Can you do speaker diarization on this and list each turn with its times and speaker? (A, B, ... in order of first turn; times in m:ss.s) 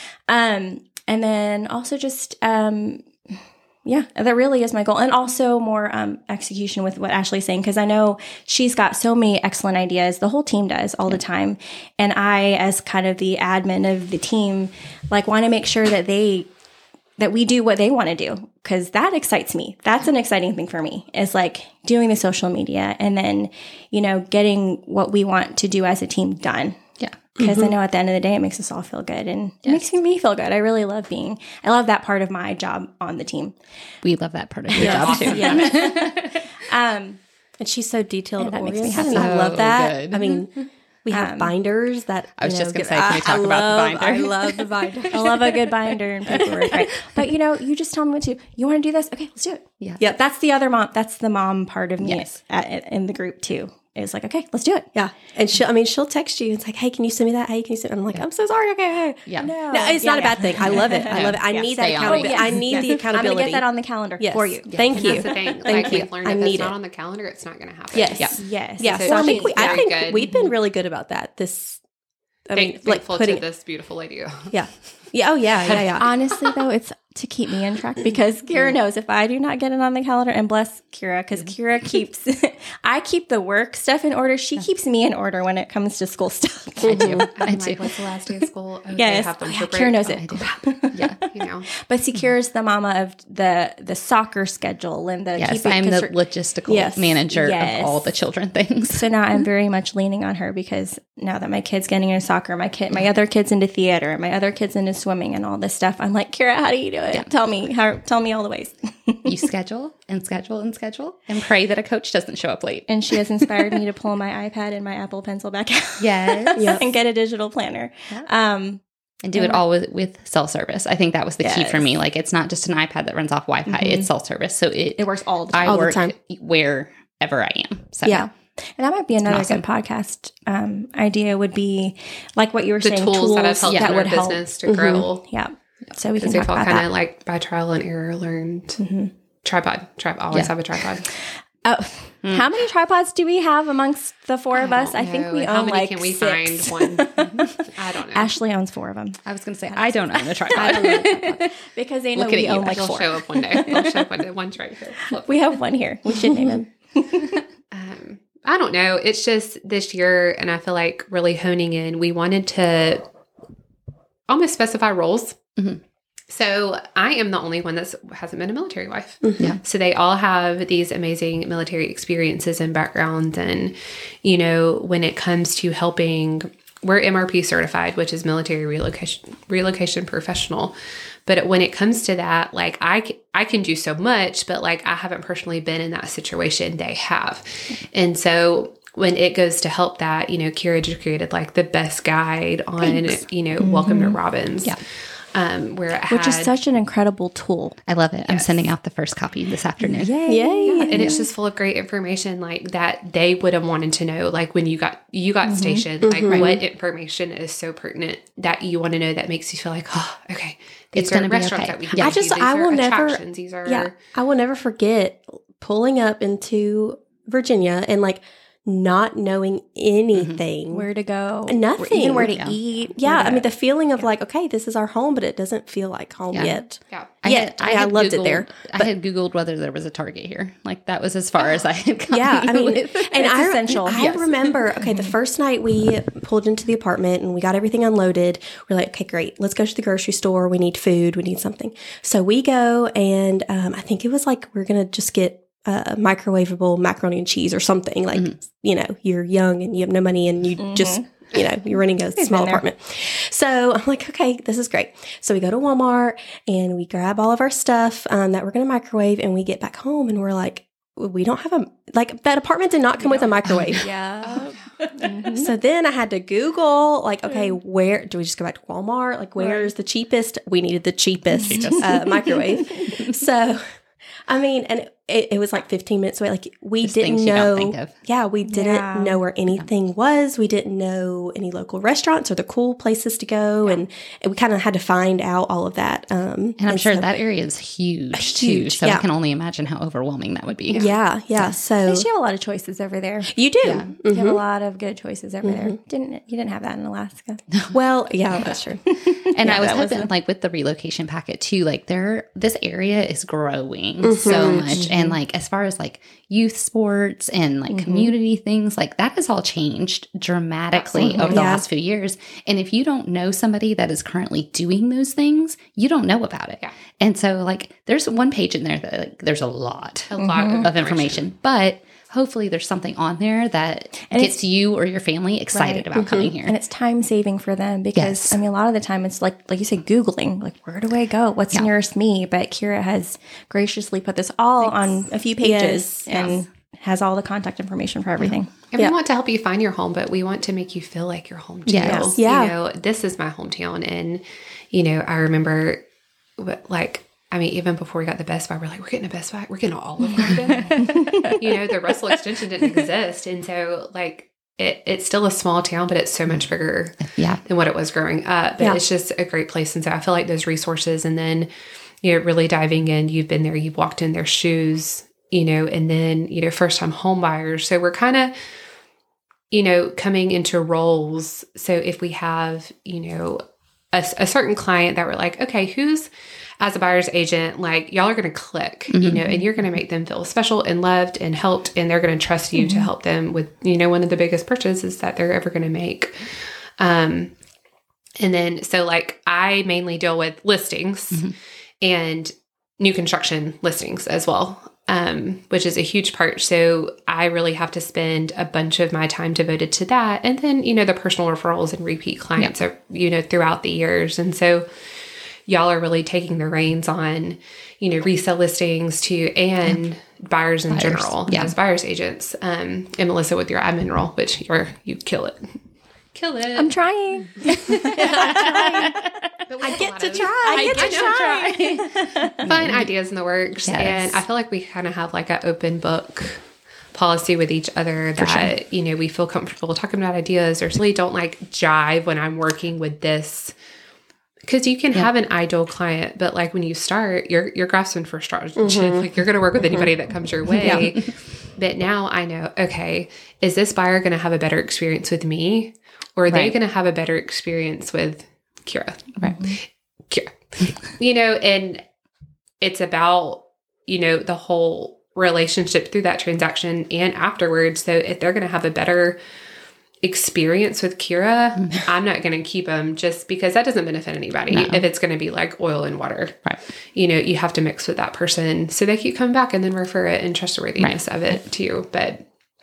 0:00.3-0:16.5 A
0:17.2-0:26.8 A
0:27.3-0:33.6 A
0:27.4-0:27.7 B
0:29.6-0:29.9 C
0:34.0-0:36.4 C
0:34.7-0:37.2 A
0:34.8-0:35.7 B
0:37.6-0:45.7 B
0:38.4-0:39.3 A
0:38.9-0:40.4 C
0:41.1-0:41.5 A
0:42.4-0:45.6 C
0:45.1-0:54.9 A
0:52.0-0:52.2 C
0:54.9-1:03.6 B
0:59.2-0:59.5 C
0:59.4-1:05.9 A
1:00.6-1:02.8 C
1:04.2-1:06.8 B
1:04.7-1:05.2 C
1:04.9-1:10.3 D
1:07.9-1:11.8 B
1:08.3-1:09.9 A
1:12.5-1:13.4 B
1:12.5-1:14.6 D
1:14.5-1:16.1 B
1:15.6-1:16.0 D
1:16.0-1:27.3 A
1:26.8-1:27.9 C
1:26.9-1:27.2 B
1:27.0-1:30.6 D
1:29.0-1:31.2 A
1:30.9-1:31.2 C
1:31.2-1:31.7 D
1:31.8-1:36.1 A
1:35.4-1:39.1 C
1:36.7-1:38.1 A
1:38.8-1:49.4 A
1:49.2-1:52.9 C
1:52.9-1:58.8 A
1:56.0-1:56.8 C
1:56.6-1:56.8 B
1:59.2-2:08.3 C
1:59.3-1:59.6 A
2:01.4-2:01.9 A
2:03.6-2:04.1 A
2:05.0-2:05.9 A
2:05.6-2:06.1 B
2:08.1-2:14.4 A
2:09.2-2:09.6 C
2:12.8-2:15.2 D
2:13.7-2:14.0 C
2:14.6-2:15.0 B
2:15.2-2:16.9 A
2:16.2-2:18.8 D
2:18.8-2:19.1 A
2:19.4-2:21.0 D
2:21.6-2:34.0 A
2:22.2-2:22.5 C
2:24.6-2:28.4 D
2:29.2-2:31.4 C
2:30.6-2:31.0 B
2:32.1-2:33.7 C
2:32.7-2:35.6 D
2:35.0-2:37.4 A
2:37.7-2:43.0 D
2:44.3-2:45.6 D
2:46.3-3:00.7 D
3:01.2-3:16.5 D
3:13.6-3:14.2 A
3:16.1-3:17.8 A
3:17.9-3:20.1 C
3:18.3-3:18.7 D
3:19.8-3:21.2 A
3:20.3-3:21.1 B
3:20.7-3:34.0 D
3:20.9-3:21.2 C
3:25.4-3:26.5 A
3:26.0-3:26.6 B
3:31.0-3:32.2 C
3:31.9-3:40.9 B
3:40.1-3:40.4 C
3:40.7-3:44.0 A
3:41.5-3:48.9 B
3:46.3-3:46.6 C
3:47.2-3:52.9 C
3:52.1-4:23.9 B
3:52.9-3:55.1 A
3:53.9-3:54.5 C
4:10.6-4:11.0 A
4:12.2-4:12.6 A
4:23.8-4:25.5 A
4:25.3-4:33.6 B
4:29.4-4:29.7 A
4:31.4-4:32.4 C
4:31.5-4:32.9 A
4:34.3-4:47.1 B
4:36.8-4:37.9 C
4:38.4-4:39.2 A
4:46.6-4:51.6 C
4:48.1-4:49.0 B
4:50.7-4:50.9 D
4:50.7-4:52.1 B
4:51.9-4:53.3 A
4:53.3-4:54.4 B
4:53.6-4:53.9 C
4:54.1-4:57.4 A
4:55.4-4:55.8 B
4:57.5-4:57.8 C
4:57.7-4:58.9 B
4:58.8-5:00.1 A
4:59.3-5:26.6 C
5:04.0-5:04.9 B
5:04.3-5:04.6 D
5:04.7-5:05.2 A
5:07.7-5:08.1 A
5:10.7-5:11.1 D
5:11.0-5:11.5 A
5:11.0-5:11.6 B
5:20.1-5:21.2 D
5:20.2-5:20.7 A
5:24.0-5:24.4 A
5:25.5-5:38.5 A
5:25.9-5:26.3 B
5:28.0-5:28.4 C
5:35.4-5:36.4 B
5:38.7-5:45.8 D
5:41.7-5:42.1 C
5:41.8-5:42.1 A
5:42.2-5:42.6 B
5:46.4-6:01.5 D
5:50.2-5:51.4 A
5:50.2-5:50.9 C
5:57.0-5:57.4 C
6:02.0-6:08.3 D
6:09.5-6:27.3 D
6:18.9-6:19.4 C
6:22.6-6:22.9 A
6:28.2-6:44.7 D
6:45.4-6:55.6 D
6:50.7-6:51.5 C
6:56.1-6:56.8 D
6:56.5-6:59.2 A
6:58.0-6:58.7 B
6:59.5-7:01.6 D
6:59.6-7:01.6 B
7:00.2-7:02.4 A
7:01.6-7:01.8 C
7:02.4-7:02.9 C
7:02.4-7:13.5 D
7:03.6-7:04.2 C
7:08.2-7:08.5 C
7:14.5-7:31.8 D
7:18.6-7:19.9 B
7:20.6-7:21.1 C
7:26.3-7:26.6 C
7:29.2-7:29.5 C
7:32.6-7:39.2 D
7:40.0-7:52.3 D
7:41.6-7:41.8 C
7:44.5-7:44.8 C
7:50.8-7:51.4 C